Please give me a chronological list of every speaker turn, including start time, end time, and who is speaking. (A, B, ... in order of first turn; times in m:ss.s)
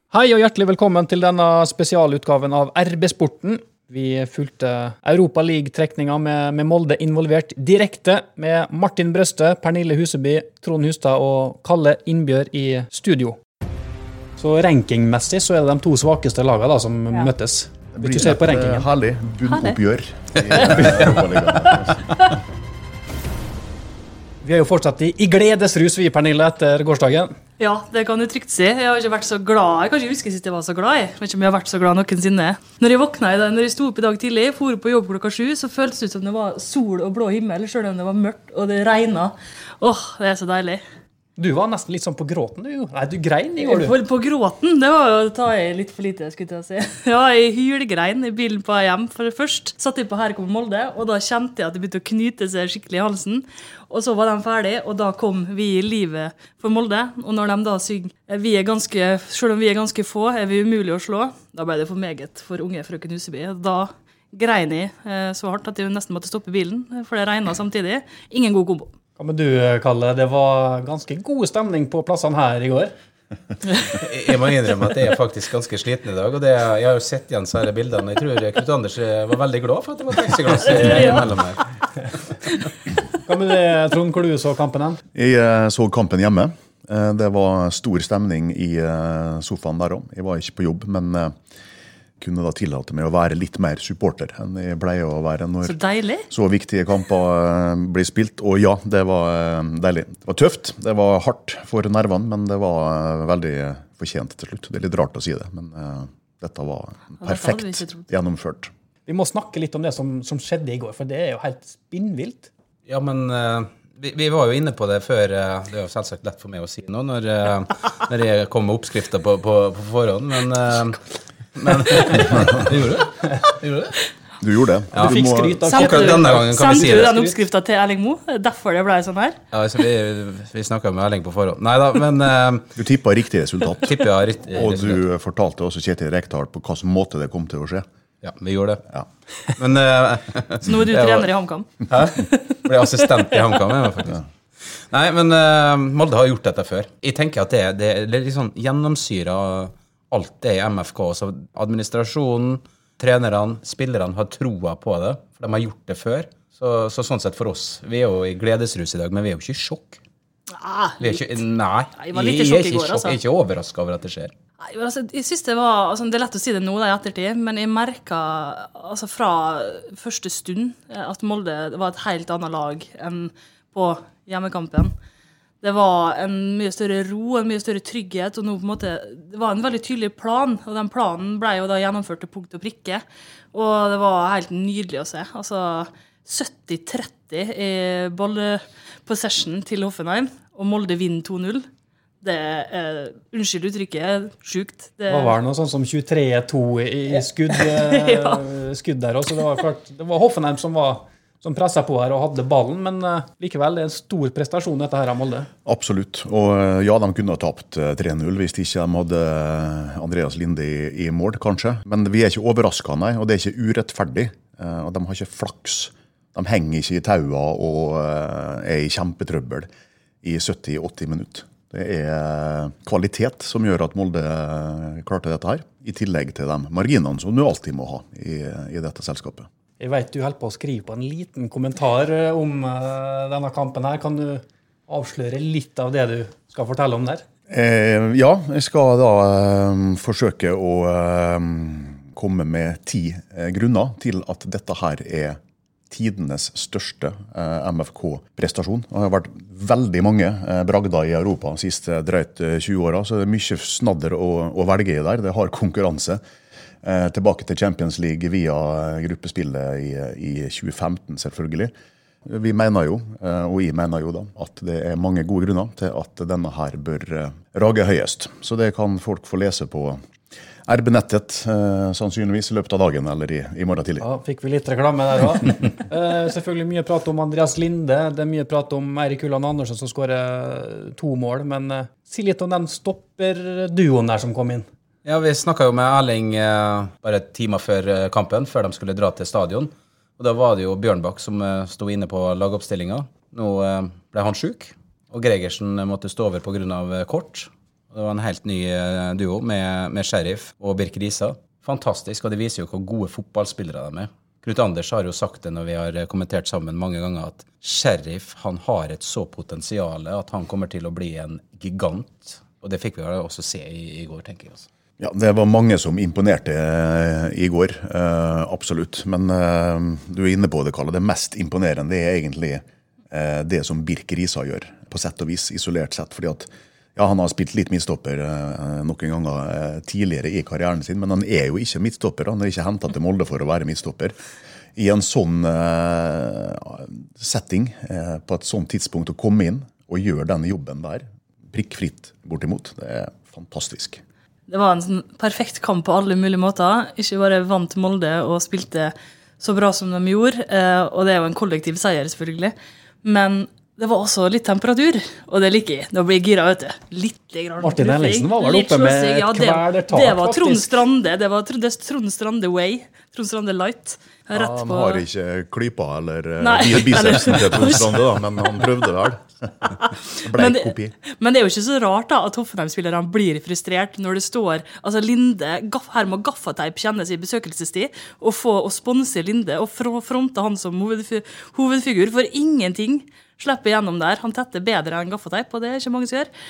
0:00.1-0:13.4 A
0:14.4-0:18.9 A
0:17.9-0:22.3 B
0:19.5-0:19.8 C
0:20.8-0:21.1 D
0:24.4-0:27.3 A
0:27.6-0:40.8 C
0:41.4-0:44.0 A
0:43.6-1:08.9 C
1:09.2-1:12.9 A
1:13.9-1:21.6 D
1:20.6-1:21.3 C
1:23.2-1:25.0 A
1:25.1-1:31.3 B
1:32.2-1:35.8 B
1:35.6-1:36.3 C
1:36.3-1:48.7 B
1:47.2-1:48.1 C
1:49.0-1:52.5 A
1:52.9-2:01.0 D
2:01.5-2:04.0 D
2:04.4-2:05.6 B
2:04.9-2:07.1 D
2:05.0-2:07.4 A
2:05.7-2:09.4 C
2:09.5-2:12.8 D
2:12.8-2:17.8 B
2:13.8-2:15.0 D
2:18.2-2:18.9 D
2:19.5-2:21.3 D
2:20.6-2:22.6 C
2:21.9-2:40.0 D
2:23.3-2:23.6 C
2:40.5-2:41.3 C
2:41.0-2:44.3 D
2:42.0-2:43.2 C
2:44.6-2:54.9 C
2:55.6-3:11.6 C
3:12.2-3:15.4 C
3:15.1-3:25.5 A
3:17.5-3:18.5 C
3:25.6-3:39.7 B
3:40.2-3:49.5 B
3:49.8-3:57.2 A
3:57.5-4:05.4 B
4:05.9-4:16.2 B
4:16.8-4:21.7 B
4:22.2-4:30.0 B
4:30.7-4:34.0 B
4:34.0-4:44.6 A
4:45.0-5:14.7 D
5:15.0-5:34.2 B
5:34.8-5:44.0 B
5:44.5-6:05.0 C
5:57.6-6:00.8 A
6:04.3-6:10.9 B
6:06.4-6:08.0 C
6:09.8-6:26.3 C